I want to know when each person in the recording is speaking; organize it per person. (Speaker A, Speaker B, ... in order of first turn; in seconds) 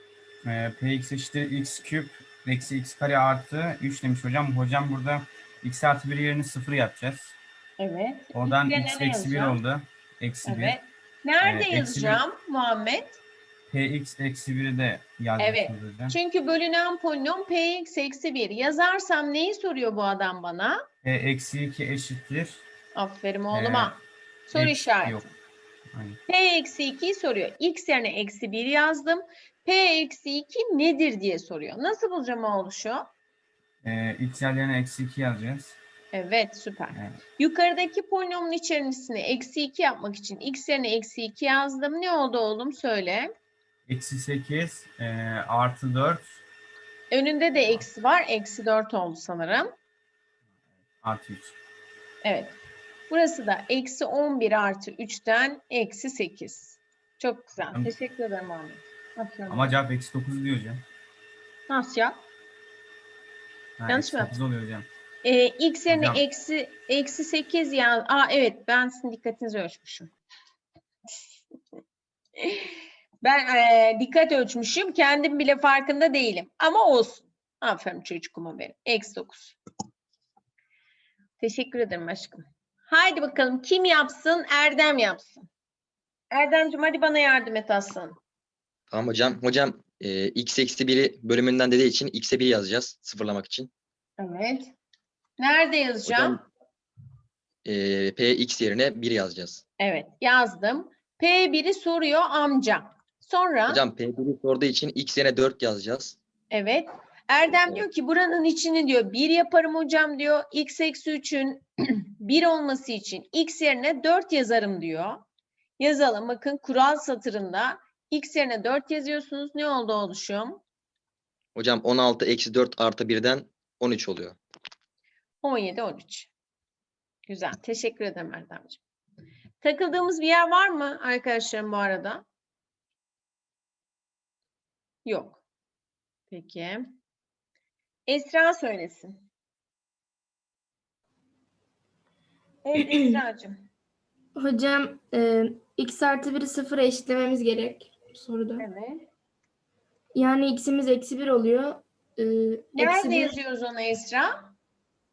Speaker A: 0.4-7.3, 8.3-10.8, 11.4-12.2, 13.7-16.1, 21.0-22.6, 23.5-23.9, 24.5-25.2, 33.8-35.8, 43.9-46.4, 51.0-51.5, 59.5-60.8, 63.8-64.9, 65.9-66.2
Speaker B: 7.8-9.6, 10.4-13.2, 15.4-20.8, 22.9-25.3, 26.3-33.1, 36.1-43.3, 47.1-49.7, 52.2-52.6, 53.1-59.8, 61.7-62.2, 63.9-64.3, 65.2-70.1, 72.4-72.7, 73.2-79.6, 81.4-85.5, 86.3-88.2, 94.2-94.7, 95.4-96.4, 99.8-103.8, 106.5-111.6, 112.2-115.2, 115.8-120.6, 125.4-126.3, 127.3-128.8, 129.6-132.2, 135.0-135.4, 136.3-136.9, 138.1-139.2, 142.6-143.7, 148.6-149.1, 152.7-154.5
Speaker C: 88.9-93.7, 96.0-96.4, 97.6-99.6, 103.7-106.2, 121.5-124.4
Speaker D: 144.3-148.7, 150.1-153.3